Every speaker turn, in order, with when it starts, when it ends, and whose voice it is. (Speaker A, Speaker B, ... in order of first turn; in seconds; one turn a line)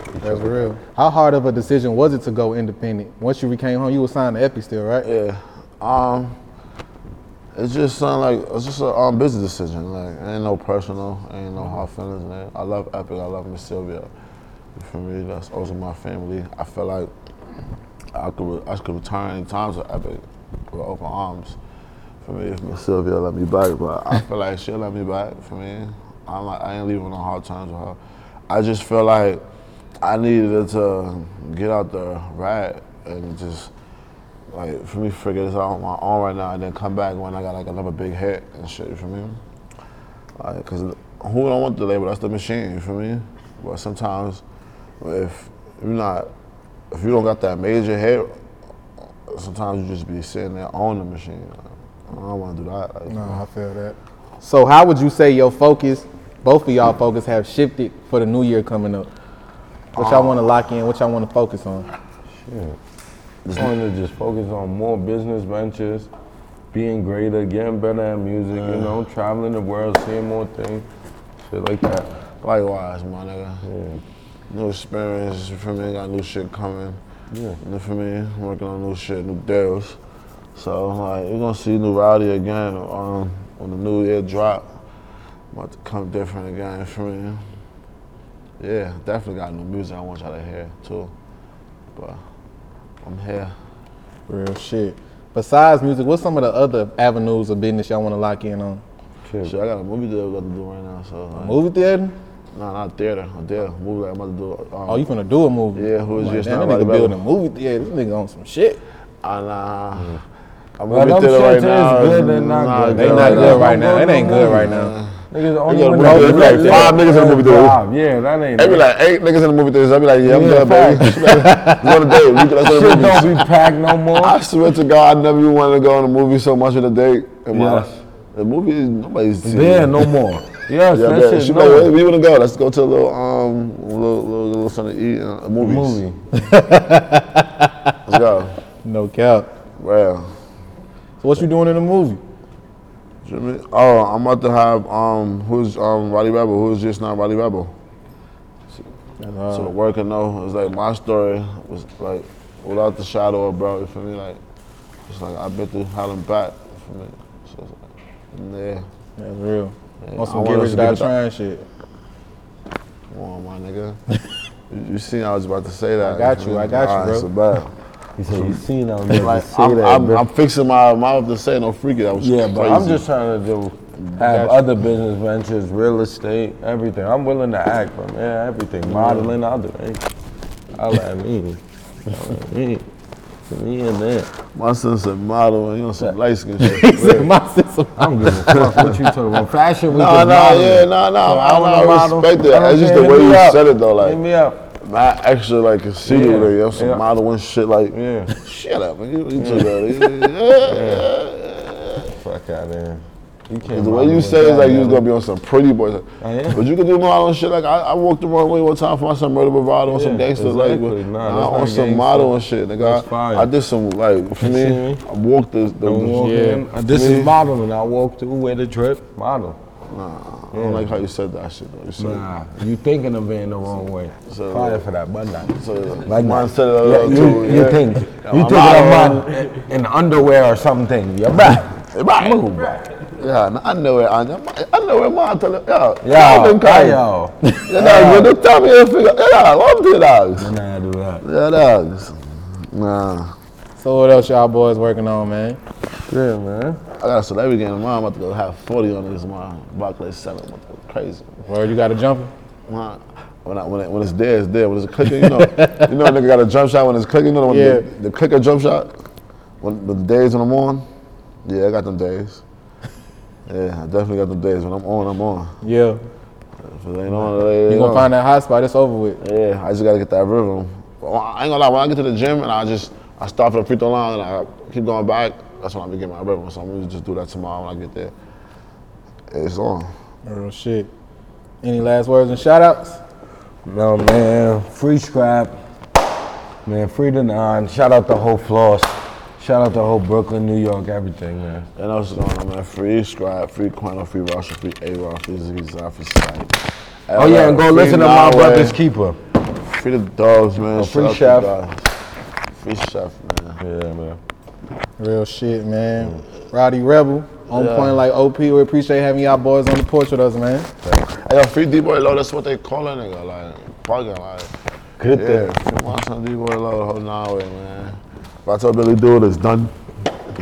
Speaker A: 0.2-5.1
Speaker B: 5.0-6.4
Speaker B: 7.5-14.1
Speaker B: 14.8-17.1
Speaker B: 18.1-21.6
Speaker B: 22.2-29.4
Speaker B: 30.0-33.7
Speaker B: 34.5-39.4
Speaker B: 40.4-44.4
Speaker B: 45.0-46.3
Speaker B: 46.9-48.3
Speaker B: 49.3-53.4
Speaker A: 53.1-59.1
Speaker B: 60.0-60.5
Speaker A: 60.0-61.9
Speaker C: 62.4-62.8
Speaker B: 63.5-63.7
Speaker C: 63.5-66.1
Speaker C: 66.7-70.9
Speaker B: 68.5-69.0
Speaker C: 71.5-72.1
Speaker B: 72.4-73.7
Speaker C: 73.7-74.0
Speaker B: 74.5-77.0
Speaker C: 77.3-77.6
Speaker B: 77.6-80.0
Speaker B: 80.5-84.7
Speaker B: 85.5-87.5
Speaker B: 88.6-91.1
Speaker B: 92.0-92.2
Speaker B: 93.0-93.6
Speaker A: 94.3-98.8
Speaker C: 99.3-99.5
Speaker B: 99.4-101.6
Speaker A: 101.4-102.2
Speaker B: 102.5-105.1
Speaker A: 104.9-108.8
Speaker B: 105.7-107.2
Speaker B: 109.2-110.2
Speaker B: 110.8-117.8
Speaker C: 110.9-114.7
Speaker A: 112.9-114.9
Speaker C: 115.3-118.8
Speaker A: 116.0-117.0
Speaker B: 118.6-123.5
Speaker C: 120.2-121.4
Speaker A: 121.3-122.0
Speaker C: 122.6-124.4
Speaker B: 124.1-130.1
Speaker C: 127.5-128.0
Speaker C: 129.4-131.9
Speaker B: 130.9-136.0
Speaker C: 135.6-136.2
Speaker A: 136.3-137.9
Speaker B: 138.1-138.6
Speaker A: 138.8-139.5
Speaker B: 139.8-140.3
Speaker A: 141.2-142.2
Speaker B: 143.2-147.7
Speaker A: 149.2-149.7
Speaker B: 149.5-154.4
Speaker B: 155.1-158.9
Speaker A: 159.2-161.7
Speaker B: 160.0-161.1
Speaker B: 163.1-164.0
Speaker B: 164.7-173.1
Speaker A: 166.0-167.3
Speaker C: 168.2-170.2
Speaker C: 172.2-180.0
Speaker A: 174.2-174.6
Speaker B: 178.8-179.3
Speaker C: 180.7-182.9
Speaker C: 183.5-184.3
Speaker B: 184.5-187.3
Speaker A: 186.6-188.7
Speaker C: 187.0-187.2
Speaker C: 188.0-194.6
Speaker B: 188.5-189.0
Speaker B: 189.9-194.2
Speaker B: 194.8-202.1
Speaker C: 196.1-197.1
Speaker C: 197.9-198.3
Speaker C: 199.4-199.7
Speaker C: 200.7-201.1
Speaker C: 202.1-205.1
Speaker B: 203.7-217.4
Speaker C: 206.2-206.6
Speaker C: 209.9-213.5
Speaker C: 214.4-215.0
Speaker C: 215.8-219.6
Speaker A: 216.2-216.6
Speaker B: 219.8-222.3
Speaker C: 220.5-221.0
Speaker C: 222.0-232.8
Speaker B: 224.2-224.9
Speaker B: 225.5-229.3
Speaker B: 231.9-237.1
Speaker C: 236.0-238.4
Speaker B: 237.7-240.5
Speaker C: 240.4-241.2
Speaker B: 241.2-243.4
Speaker A: 243.8-245.6
Speaker C: 246.1-246.8
Speaker B: 247.0-251.4
Speaker A: 251.4-252.3
Speaker B: 252.7-258.9
Speaker A: 255.1-255.9
Speaker A: 257.5-257.9
Speaker B: 259.6-260.9
Speaker B: 261.4-262.4
Speaker B: 263.5-265.6
Speaker A: 265.6-266.0
Speaker B: 266.6-268.1
Speaker A: 267.7-269.2
Speaker B: 269.2-278.1
Speaker B: 279.3-279.9
Speaker A: 280.3-280.9
Speaker A: 281.6-283.0
Speaker C: 283.6-285.6
Speaker C: 286.6-291.7
Speaker B: 291.8-298.8
Speaker C: 297.2-299.2
Speaker B: 299.5-301.9
Speaker C: 300.7-301.5
Speaker B: 302.5-303.6
Speaker C: 303.6-304.2
Speaker A: 305.0-310.7
Speaker B: 307.5-308.0
Speaker B: 311.1-314.5
Speaker C: 315.0-315.5
Speaker B: 315.1-319.7